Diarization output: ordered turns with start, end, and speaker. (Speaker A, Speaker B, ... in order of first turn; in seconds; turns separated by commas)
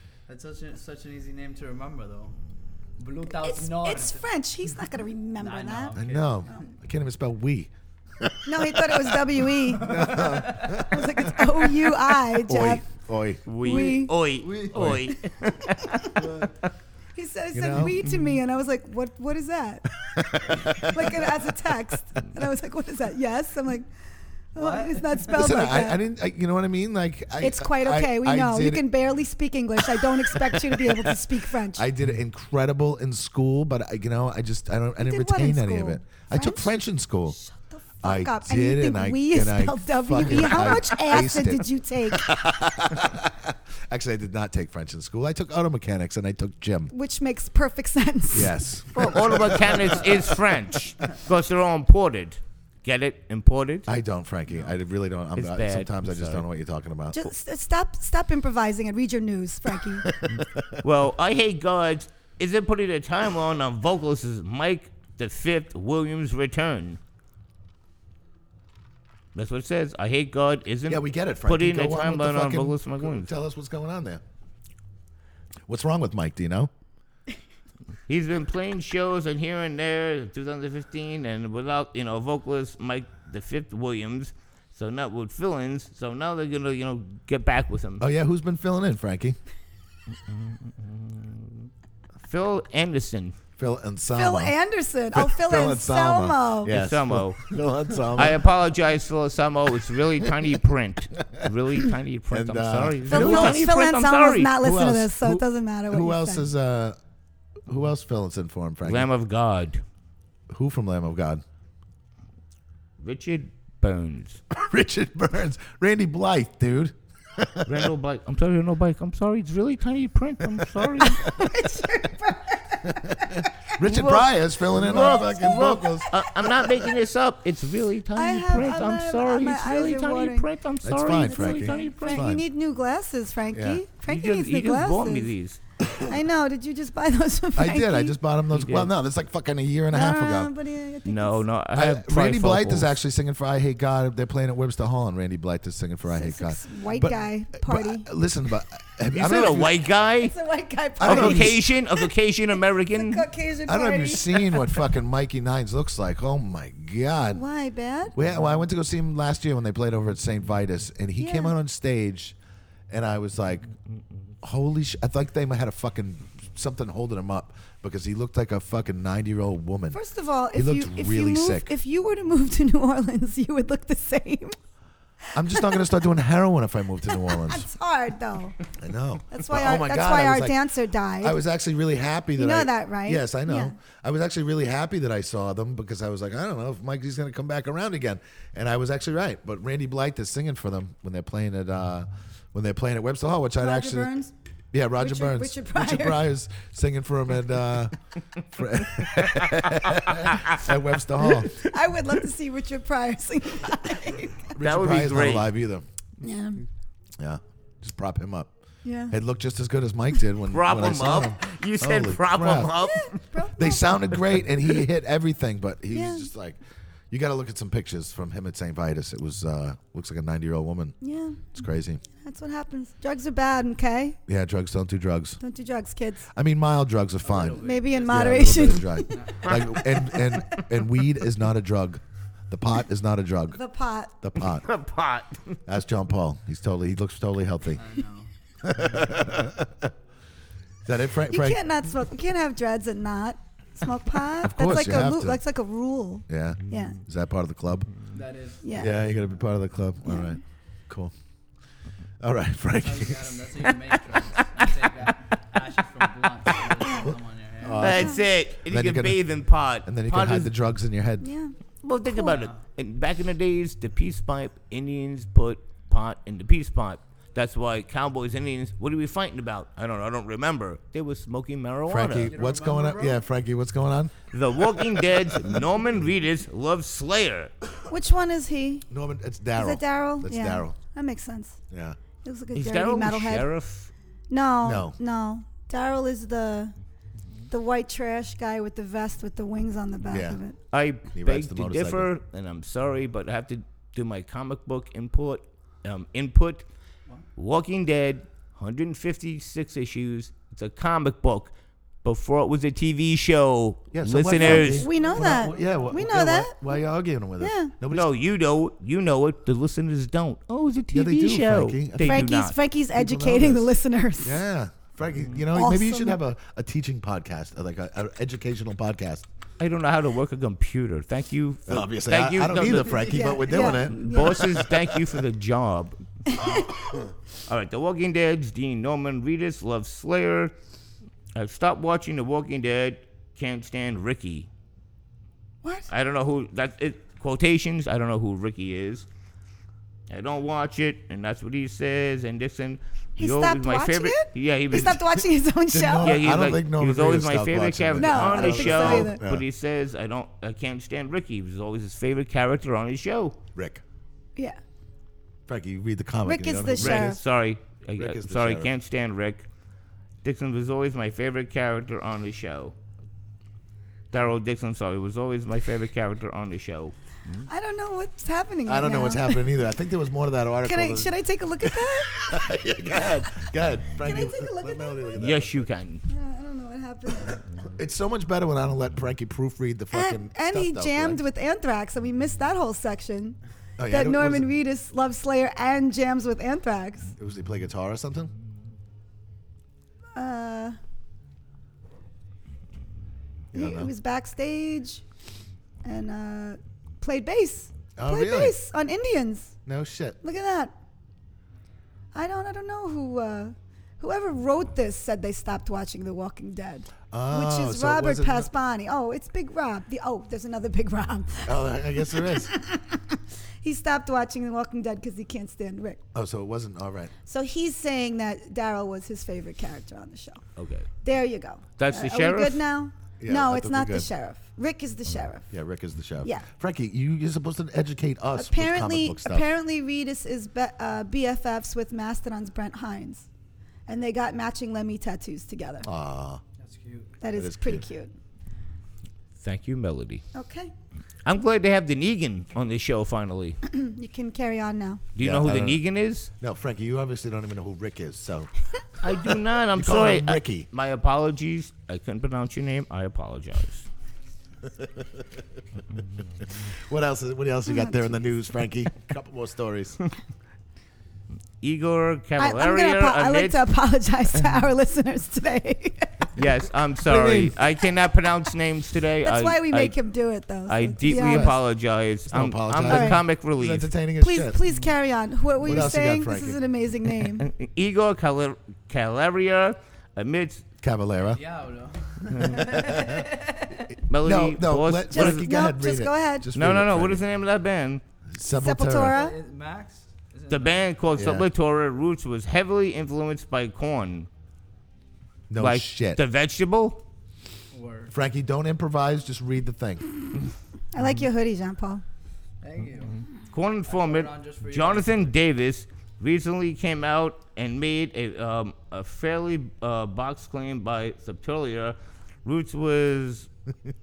Speaker A: 0.3-2.4, Speaker A: 3.0-4.2, Speaker B: 3.3-6.0, Speaker A: 5.4-6.6, Speaker C: 5.9-11.6, Speaker B: 8.4-12.8, Speaker A: 9.7-10.8, Speaker C: 12.4-13.5, Speaker D: 13.4-16.3, Speaker B: 13.6-14.1, Speaker A: 14.4-14.7, Speaker C: 14.5-15.1, Speaker B: 15.8-16.1, Speaker A: 16.1-16.5, Speaker B: 17.1-19.9, Speaker C: 17.5-18.1, Speaker C: 20.0-21.5, Speaker B: 20.6-23.9, Speaker A: 24.5-25.3, Speaker B: 24.5-26.0, Speaker C: 25.3-28.8, Speaker B: 27.4-31.9, Speaker C: 29.9-31.2, Speaker C: 31.7-37.4, Speaker B: 35.0-36.7, Speaker B: 37.3-42.4, Speaker C: 38.0-46.9, Speaker B: 46.9-48.6, Speaker C: 48.3-50.5, Speaker D: 48.9-53.9, Speaker C: 53.9-57.2, Speaker D: 55.3-56.4, Speaker B: 57.1-60.0, Speaker C: 60.0-60.8, Speaker D: 60.8-67.0, Speaker D: 69.3-73.3, Speaker C: 70.9-74.2, Speaker C: 75.7-76.7, Speaker D: 78.1-88.0, Speaker C: 88.0-89.4, Speaker D: 90.1-91.7, Speaker D: 92.2-93.3, Speaker C: 93.6-94.5, Speaker B: 94.1-96.8, Speaker C: 95.1-98.4, Speaker D: 96.7-97.5, Speaker D: 98.1-104.5, Speaker C: 102.3-103.7, Speaker B: 103.1-106.5, Speaker C: 104.6-107.0, Speaker C: 107.7-109.1, Speaker D: 108.8-109.8, Speaker C: 110.5-111.4, Speaker D: 113.0-114.4, Speaker C: 114.5-117.9, Speaker D: 117.7-121.2, Speaker C: 120.5-120.9, Speaker B: 121.0-123.5, Speaker C: 122.8-126.9, Speaker D: 123.8-132.3, Speaker B: 128.1-130.5, Speaker C: 130.8-132.4, Speaker B: 131.1-135.3, Speaker C: 133.5-133.8, Speaker D: 134.1-135.6, Speaker B: 136.0-138.2, Speaker C: 137.6-140.5, Speaker D: 138.5-138.9, Speaker B: 139.9-141.4, Speaker D: 141.1-142.9, Speaker C: 141.7-149.8, Speaker B: 146.1-148.1, Speaker D: 149.1-150.3, Speaker B: 150.2-152.1, Speaker C: 151.0-151.6, Speaker D: 151.0-153.2, Speaker B: 152.9-154.8, Speaker C: 153.7-157.4, Speaker B: 157.3-158.1, Speaker C: 158.1-162.3, Speaker B: 161.2-161.5, Speaker C: 162.9-163.7, Speaker C: 164.4-170.0, Speaker B: 169.9-174.6, Speaker C: 170.5-171.7, Speaker C: 175.3-177.7, Speaker B: 175.4-175.8, Speaker B: 177.1-178.6, Speaker C: 178.8-180.6, Speaker B: 179.3-181.4, Speaker C: 181.2-194.1, Speaker B: 182.3-183.7, Speaker B: 193.6-194.3, Speaker C: 194.7-197.9, Speaker B: 195.0-196.2, Speaker C: 198.5-201.6, Speaker D: 199.2-200.6, Speaker B: 201.5-204.5, Speaker C: 204.5-205.8, Speaker D: 204.6-205.5, Speaker B: 206.2-206.6, Speaker C: 207.2-208.5, Speaker B: 208.8-209.1, Speaker C: 209.1-212.7, Speaker D: 210.5-213.2, Speaker B: 212.8-214.0, Speaker C: 213.6-216.6, Speaker B: 215.9-216.3, Speaker C: 217.1-220.9, Speaker B: 221.0-221.5, Speaker C: 221.5-222.0, Speaker B: 222.2-224.2, Speaker C: 224.3-225.4, Speaker B: 225.4-226.2, Speaker C: 226.3-233.6, Speaker A: 227.2-229.6, Speaker B: 227.6-230.6, Speaker D: 229.4-229.8, Speaker B: 233.5-234.1, Speaker C: 234.2-234.7, Speaker D: 234.5-235.6, Speaker C: 235.7-237.8, Speaker A: 237.7-238.3, Speaker C: 238.6-239.9, Speaker C: 240.8-241.6, Speaker B: 241.3-247.0, Speaker C: 244.4-245.4, Speaker C: 246.3-247.9, Speaker A: 248.1-249.0, Speaker B: 248.6-248.9, Speaker C: 248.7-251.1, Speaker B: 250.1-250.4, Speaker C: 252.2-253.4, Speaker A: 252.8-257.9, Speaker C: 257.0-259.2, Speaker B: 257.8-258.2, Speaker D: 257.8-260.5, Speaker C: 259.8-261.3, Speaker B: 261.2-261.5, Speaker D: 261.8-272.3, Speaker B: 262.1-262.4, Speaker A: 262.2-262.5, Speaker C: 271.9-275.6, Speaker A: 272.1-273.2, Speaker D: 274.3-277.5, Speaker B: 277.9-278.9, Speaker C: 278.9-280.8, Speaker B: 279.6-281.6, Speaker C: 281.7-282.0, Speaker B: 282.2-283.5, Speaker D: 282.5-283.9, Speaker B: 284.3-286.7, Speaker C: 284.6-284.9, Speaker B: 287.5-290.6, Speaker C: 290.1-290.4, Speaker D: 290.7-296.6, Speaker C: 291.1-292.1, Speaker D: 297.4-301.5, Speaker D: 302.0-304.9, Speaker C: 303.9-308.1, Speaker B: 304.4-306.6, Speaker A: 304.6-306.0, Speaker B: 307.4-307.7, Speaker D: 307.9-312.5, Speaker C: 310.9-312.3, Speaker B: 312.0-314.4, Speaker C: 312.9-319.2, Speaker B: 315.5-316.2, Speaker D: 319.6-326.4, Speaker C: 321.7-325.2, Speaker B: 322.8-324.5, Speaker B: 326.3-326.7, Speaker C: 326.5-327.0, Speaker D: 327.5-330.5, Speaker D: 331.3-334.5, Speaker B: 335.6-335.9, Speaker D: 335.9-339.1, Speaker D: 340.1-345.1, Speaker B: 343.2-346.2, Speaker C: 345.7-349.4, Speaker D: 346.0-353.4, Speaker B: 348.0-349.2, Speaker C: 353.6-353.8, Speaker C: 355.5-357.2, Speaker B: 356.2-357.2, Speaker D: 356.7-359.4, Speaker C: 358.0-358.7, Speaker D: 360.2-362.7, Speaker D: 364.1-367.4, Speaker B: 367.5-369.4, Speaker C: 368.7-371.1, Speaker B: 370.6-372.5, Speaker C: 371.6-375.7, Speaker B: 373.9-375.1, Speaker D: 375.2-376.0, Speaker B: 376.1-377.4, Speaker C: 377.3-381.2, Speaker B: 379.9-387.1, Speaker C: 383.8-384.5, Speaker C: 387.2-388.3, Speaker B: 390.1-390.8, Speaker C: 393.5-393.9, Speaker B: 393.5-395.0, Speaker B: 395.8-399.6, Speaker C: 398.0-398.6, Speaker C: 399.6-400.2, Speaker B: 400.2-400.7, Speaker B: 402.1-416.0, Speaker C: 407.1-408.5, Speaker C: 411.4-412.5, Speaker C: 416.1-417.1, Speaker B: 417.2-420.4, Speaker D: 420.6-420.9, Speaker B: 421.0-425.5, Speaker D: 421.8-422.6, Speaker C: 423.2-424.1, Speaker C: 425.5-429.5, Speaker B: 428.4-433.3, Speaker B: 433.9-435.9, Speaker C: 435.8-436.4, Speaker A: 436.6-437.1, Speaker B: 437.2-438.1, Speaker C: 437.3-437.8, Speaker D: 439.4-440.2, Speaker B: 440.3-440.7, Speaker D: 441.2-443.6, Speaker B: 443.6-445.0, Speaker D: 445.1-446.3, Speaker C: 445.2-445.8, Speaker C: 446.4-448.5, Speaker D: 449.0-453.9, Speaker C: 449.7-450.7, Speaker C: 454.8-455.4, Speaker C: 456.6-460.0, Speaker B: 457.7-458.1, Speaker D: 461.6-463.7, Speaker B: 462.4-466.3, Speaker D: 466.4-469.9, Speaker C: 467.1-467.6, Speaker B: 469.2-471.5, Speaker D: 470.7-473.9, Speaker C: 471.1-471.6, Speaker C: 472.3-474.6, Speaker B: 472.9-473.2, Speaker B: 474.2-477.4, Speaker C: 475.6-476.6, Speaker D: 477.4-480.6, Speaker C: 480.8-481.4, Speaker A: 481.3-483.9, Speaker C: 482.3-487.2, Speaker D: 484.1-485.4, Speaker B: 485.1-486.5, Speaker D: 486.5-488.0, Speaker C: 488.3-489.2, Speaker B: 488.6-489.4, Speaker A: 489.1-490.9, Speaker D: 490.5-494.3, Speaker C: 491.1-491.5, Speaker C: 495.5-496.2, Speaker D: 495.6-497.0, Speaker A: 497.7-498.1, Speaker C: 498.1-500.1, Speaker B: 500.9-502.0, Speaker A: 502.6-503.2, Speaker D: 503.5-513.5, Speaker A: 503.9-505.3